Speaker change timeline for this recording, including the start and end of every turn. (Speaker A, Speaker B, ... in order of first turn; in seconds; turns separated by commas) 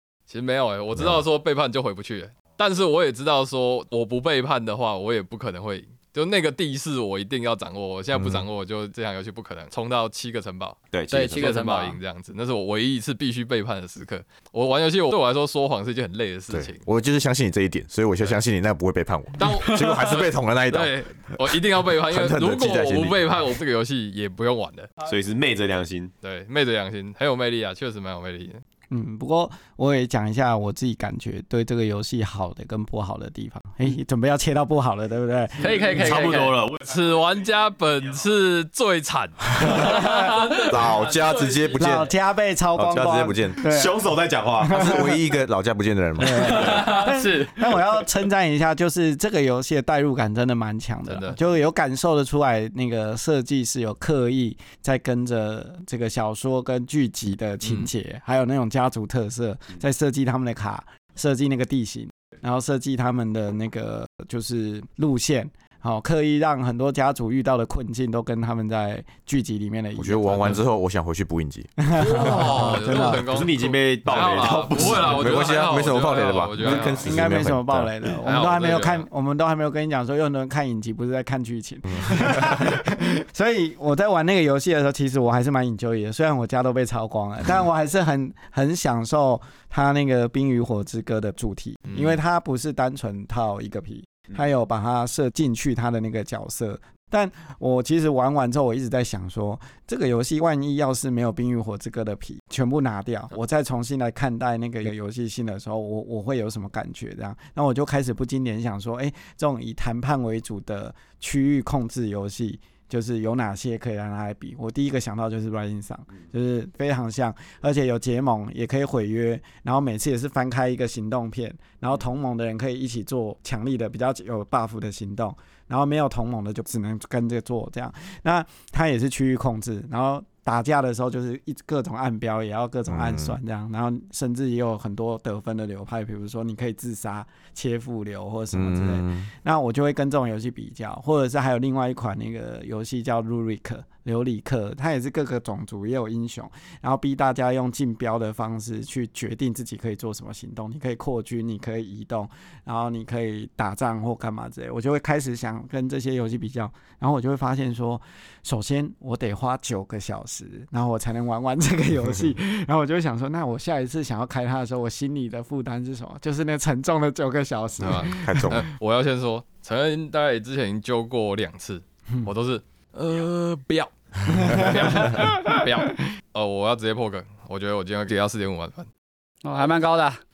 Speaker A: 0.3-10.8, Speaker B: 0.9-1.2, Speaker B: 8.1-8.4, Speaker C: 10.9-11.4, Speaker D: 11.1-12.0, Speaker A: 11.3-16.8, Speaker B: 16.5-23.2, Speaker A: 19.4-24.9, Speaker C: 25.1-26.1, Speaker A: 26.2-28.6, Speaker E: 28.9-35.7, Speaker D: 35.6-36.6, Speaker C: 35.6-36.9, Speaker A: 36.8-41.6, Speaker E: 39.8-40.3, Speaker B: 40.5-42.1, Speaker D: 41.4-41.8, Speaker E: 41.8-44.0, Speaker B: 42.7-43.6, Speaker C: 43.6-45.0, Speaker E: 44.6-45.2, Speaker B: 44.7-46.9, Speaker E: 46.2-70.6, Speaker D: 46.4-47.6, Speaker A: 51.1-51.4, Speaker A: 57.6-57.9, Speaker B: 70.0-72.5, Speaker E: 71.8-73.3, Speaker A: 71.9-77.2, Speaker C: 72.7-75.5, Speaker B: 74.3-77.9, Speaker E: 76.7-168.5, Speaker A: 78.2-79.0, Speaker A: 91.9-92.2, Speaker B: 132.9-133.4, Speaker B: 138.5-139.3, Speaker A: 167.8-178.9, Speaker B: 167.8-168.6, Speaker E: 174.4-175.7, Speaker D: 179.4-180.2